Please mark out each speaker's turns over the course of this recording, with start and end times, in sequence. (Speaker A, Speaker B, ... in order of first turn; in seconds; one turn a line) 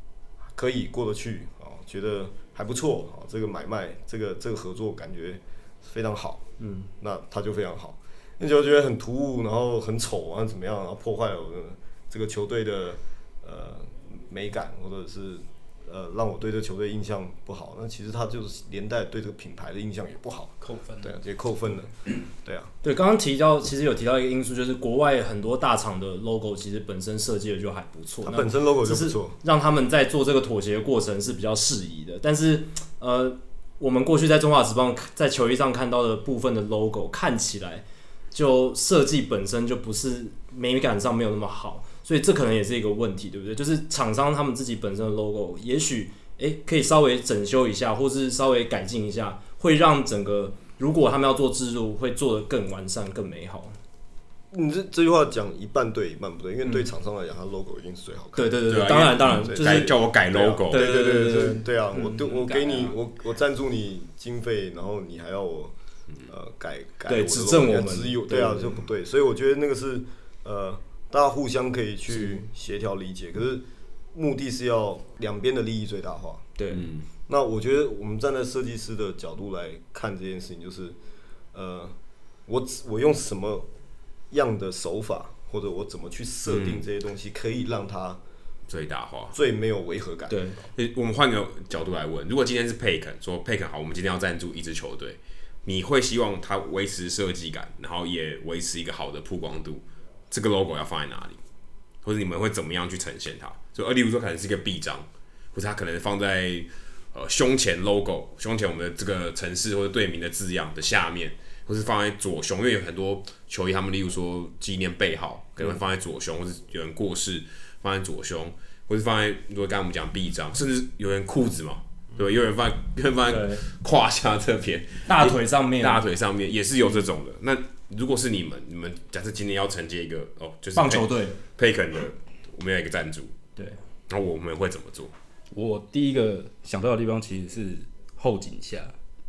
Speaker A: 0.5-6.4
Speaker B: 6.6-6.9
Speaker A: 7.0-22.7
Speaker C: 20.6-21.2
Speaker B: 22.8-53.8
Speaker A: 28.2-29.4
Speaker A: 54.5-58.6
Speaker B: 58.4-60.0
Speaker D: 58.7-60.9
Speaker A: 59.3-65.7
Speaker B: 60.7-62.2
Speaker C: 62.2-63.0
Speaker A: 66.3-76.5
Speaker B: 67.1-68.8
Speaker B: 76.6-76.9
Speaker D: 76.7-77.0
Speaker A: 77.3-81.0
Speaker A: 81.5-83.7
Speaker A: 84.3-88.2
Speaker D: 86.5-86.8
Speaker D: 88.7-89.4
Speaker A: 89.3-90.7
Speaker B: 90.3-90.6
Speaker D: 90.8-101.4
Speaker D: 102.0-133.3
Speaker B: 123.3-123.6
Speaker B: 125.1-126.0
Speaker B: 130.8-131.4
Speaker D: 134.1-135.1
Speaker C: 135.5-138.9